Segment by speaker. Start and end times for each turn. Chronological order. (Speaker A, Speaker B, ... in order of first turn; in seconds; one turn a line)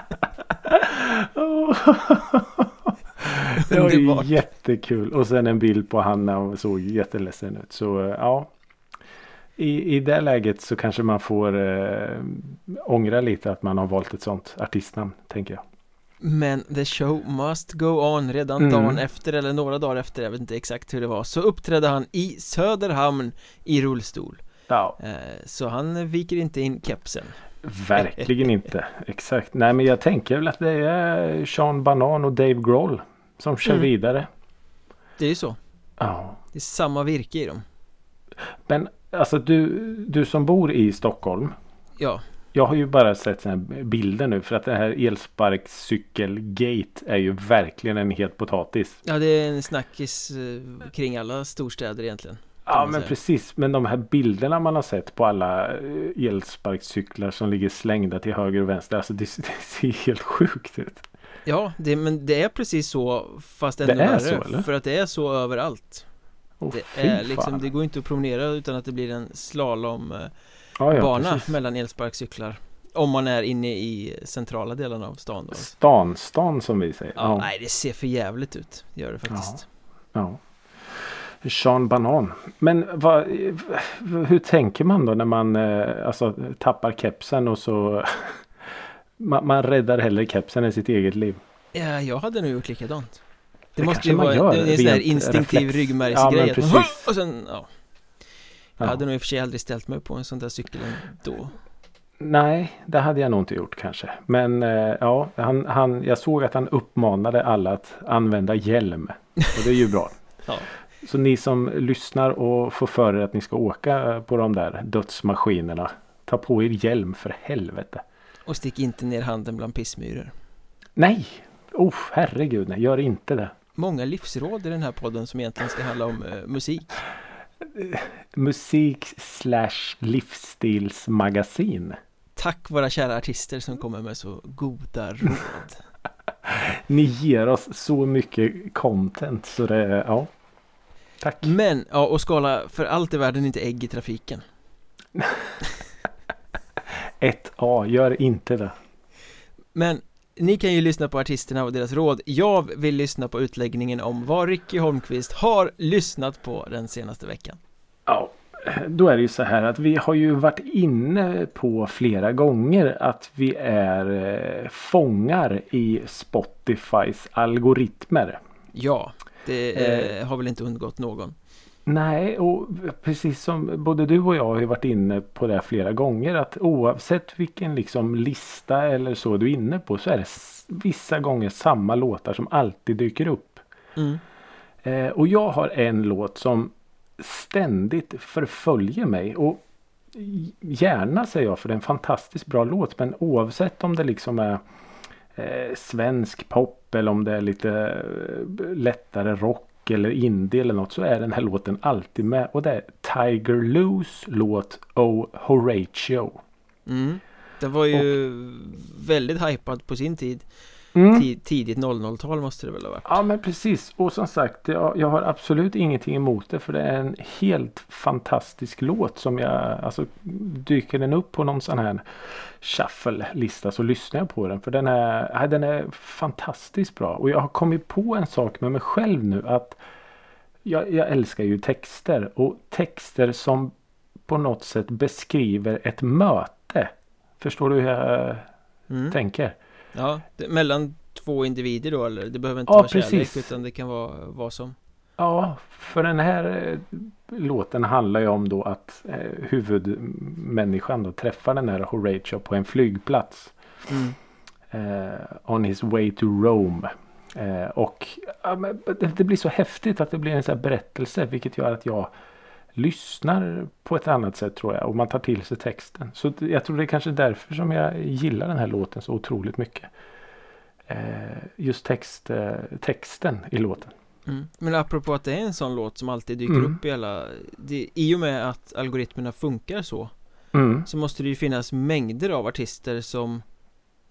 Speaker A: 0.6-8.5
Speaker B: 3.5-4.4
Speaker A: 9.6-15.6
Speaker B: 16.2-24.4
Speaker A: 18.6-19.0
Speaker A: 24.7-25.0
Speaker B: 25.0-27.4
Speaker A: 27.6-34.3
Speaker B: 27.9-28.4
Speaker B: 35.2-35.6
Speaker A: 36.0-36.4
Speaker B: 36.5-37.6
Speaker A: 38.7-41.5
Speaker A: 42.5-49.0
Speaker B: 49.0-53.1
Speaker A: 52.7-61.1
Speaker B: 61.5-66.1
Speaker A: 63.9-64.7
Speaker A: 66.6-67.6
Speaker B: 66.7-70.3
Speaker A: 70.8-71.5
Speaker B: 70.9-75.7
Speaker A: 75.5-77.5
Speaker B: 77.2-79.7
Speaker A: 79.3-79.6
Speaker A: 80.1-91.4
Speaker B: 91.7-93.2
Speaker B: 93.8-97.7
Speaker A: 93.8-97.1
Speaker B: 98.8-101.6
Speaker A: 102.2-110.2
Speaker A: 111.0-118.0
Speaker B: 118.5-120.3
Speaker A: 121.0-123.5
Speaker B: 123.8-127.0
Speaker A: 127.7-132.0
Speaker B: 132.4-135.8
Speaker A: 136.4-140.3
Speaker A: 141.2-141.5
Speaker B: 141.4-144.4
Speaker A: 145.2-145.6
Speaker A: 147.2-148.8
Speaker B: 149.8-157.6
Speaker A: 158.1-168.4
Speaker B: 168.7-171.4
Speaker A: 169.7-170.1
Speaker A: 171.9-183.6
Speaker B: 184.0-184.2
Speaker A: 184.8-194.6
Speaker A: 195.3-206.4
Speaker B: 206.9-210.5
Speaker A: 210.9-211.3
Speaker B: 211.1-213.2
Speaker A: 213.1-229.8
Speaker A: 230.7-233.7
Speaker A: 234.3-238.5
Speaker B: 238.9-239.2
Speaker A: 239.1-239.6
Speaker B: 239.9-244.8
Speaker A: 242.7-243.5
Speaker A: 245.2-253.6
Speaker B: 253.9-254.2
Speaker A: 254.7-262.1
Speaker A: 262.8-269.9
Speaker A: 270.9-273.9
Speaker B: 274.3-280.1
Speaker A: 276.5-276.8
Speaker A: 280.5-280.9
Speaker B: 280.9-283.4